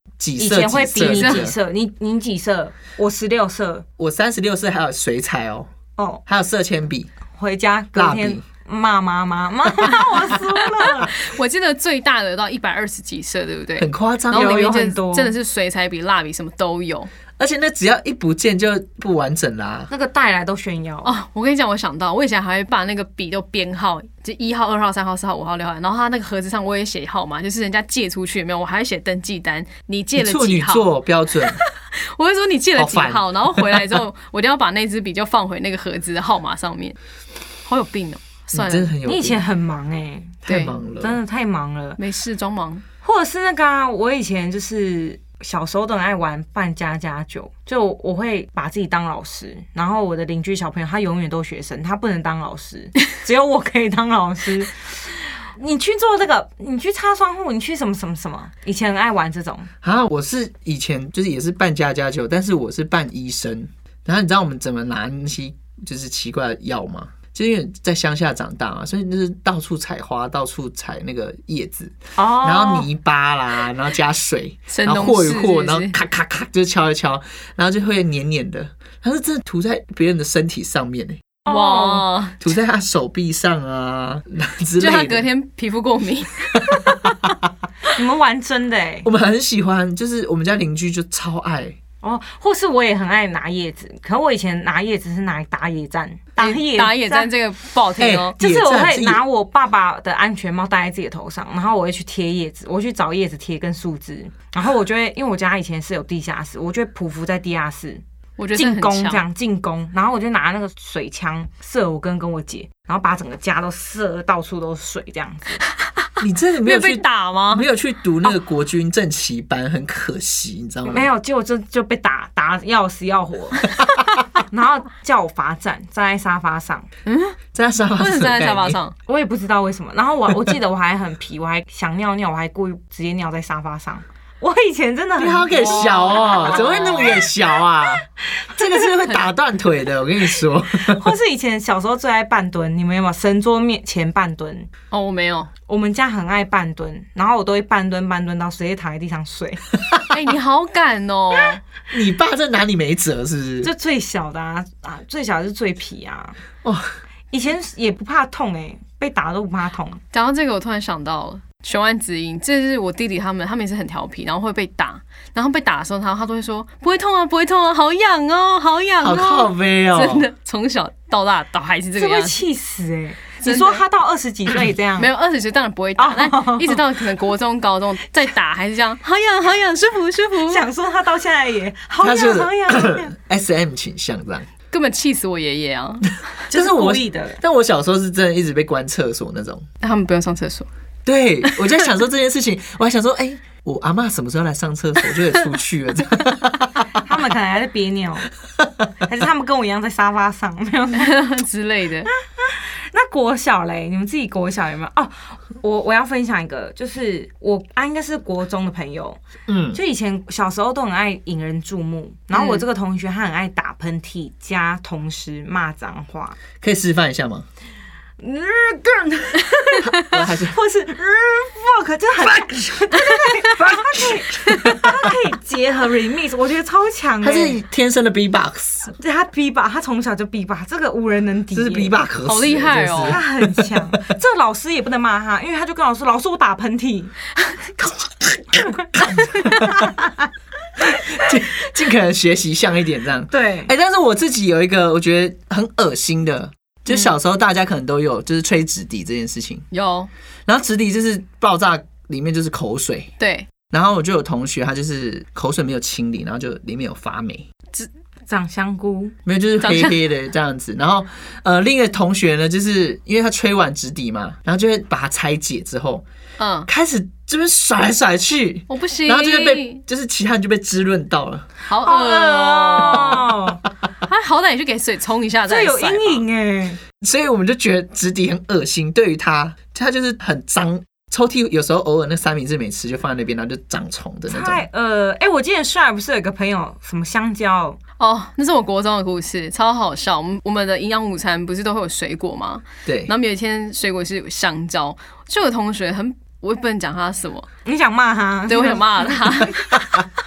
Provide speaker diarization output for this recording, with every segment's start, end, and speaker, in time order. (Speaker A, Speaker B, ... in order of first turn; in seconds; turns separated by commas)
Speaker A: 0.2-1.6, Speaker B: 0.4-3.9, Speaker C: 1.1-1.5, Speaker A: 4.0-5.7, Speaker B: 6.0-6.2, Speaker A: 6.3-7.1, Speaker B: 7.4-11.2, Speaker A: 8.0-8.4, Speaker C: 10.7-17.1, Speaker A: 13.8-14.7, Speaker B: 14.3-15.4, Speaker A: 17.4-19.9, Speaker B: 19.9-21.1, Speaker C: 21.0-30.9, Speaker A: 30.1-31.6, Speaker C: 31.4-37.0, Speaker A: 32.8-34.0, Speaker C: 37.7-38.9, Speaker A: 38.5-39.4, Speaker B: 39.0-40.4, Speaker A: 40.5-41.2, Speaker C: 40.5-40.8, Speaker B: 41.0-42.0, Speaker C: 42.0-42.8, Speaker B: 43.0-59.7, Speaker A: 59.8-81.3, Speaker B: 72.2-72.9, Speaker C: 74.7-75.9, Speaker B: 81.5-82.1, Speaker C: 81.5-82.5, Speaker A: 82.4-85.3, Speaker C: 84.8-86.9, Speaker A: 86.6-87.3, Speaker B: 87.9-89.1, Speaker A: 89.0-91.8, Speaker B: 92.0-97.3, Speaker C: 96.4-98.4, Speaker A: 98.0-99.2, Speaker B: 98.4-108.0, Speaker C: 108.4-109.2, Speaker B: 108.5-115.6, Speaker A: 116.2-121.1, Speaker C: 116.6-117.7, Speaker B: 120.8-123.7, Speaker B: 124.4-126.9, Speaker C: 127.1-127.4, Speaker A: 127.5-128.8, Speaker C: 128.0-128.9, Speaker B: 129.1-137.2, Speaker A: 135.2-141.0, Speaker C: 135.5-137.3, Speaker B: 140.7-144.7, Speaker C: 144.9-145.5, Speaker B: 145.7-149.6, Speaker C: 150.1-151.6, Speaker A: 151.9-153.7, Speaker B: 153.6-156.4, Speaker A: 156.6-156.9, Speaker B: 157.3-160.0, Speaker C: 160.1-172.4, Speaker A: 169.0-170.3, Speaker B: 172.0-175.1, Speaker C: 173.4-173.8, Speaker C: 175.0-180.7, Speaker B: 176.0-176.8, Speaker B: 180.5-183.1, Speaker A: 182.0-184.5, Speaker C: 184.7-186.2, Speaker B: 186.5-187.4, Speaker A: 186.5-189.7, Speaker C: 189.8-190.7, Speaker A: 191.1-197.0, Speaker B: 197.0-198.3, Speaker B: 199.0-201.3, Speaker C: 200.9-202.1, Speaker B: 202.3-209.2, Speaker A: 209.5-209.8, Speaker B: 209.7-216.4, Speaker C: 212.4-212.6, Speaker A: 216.6-217.5, Speaker B: 218.2-227.6, Speaker A: 219.8-220.6, Speaker A: 227.2-228.9, Speaker B: 229.0-232.0, Speaker A: 231.5-233.7, Speaker C: 232.3-233.2, Speaker B: 233.0-237.1, Speaker B: 238.7-240.1, Speaker A: 239.0-239.8, Speaker A: 240.8-249.7, Speaker B: 243.3-243.7, Speaker C: 249.7-250.1, Speaker A: 250.5-253.1, Speaker C: 253.2-253.5, Speaker A: 253.7-257.5, Speaker B: 257.8-259.1, Speaker A: 259.3-266.0, Speaker C: 259.6-260.0, Speaker C: 266.4-266.7, Speaker A: 266.7-271.5, Speaker C: 268.7-269.8, Speaker C: 271.7-273.4, Speaker B: 271.8-273.6, Speaker A: 272.8-273.1, Speaker C: 274.0-276.2, Speaker B: 275.5-276.8, Speaker A: 277.0-284.6, Speaker B: 284.3-287.8, Speaker C: 288.0-297.5, Speaker A: 292.9-293.1, Speaker B: 297.6-299.2, Speaker C: 298.5-299.9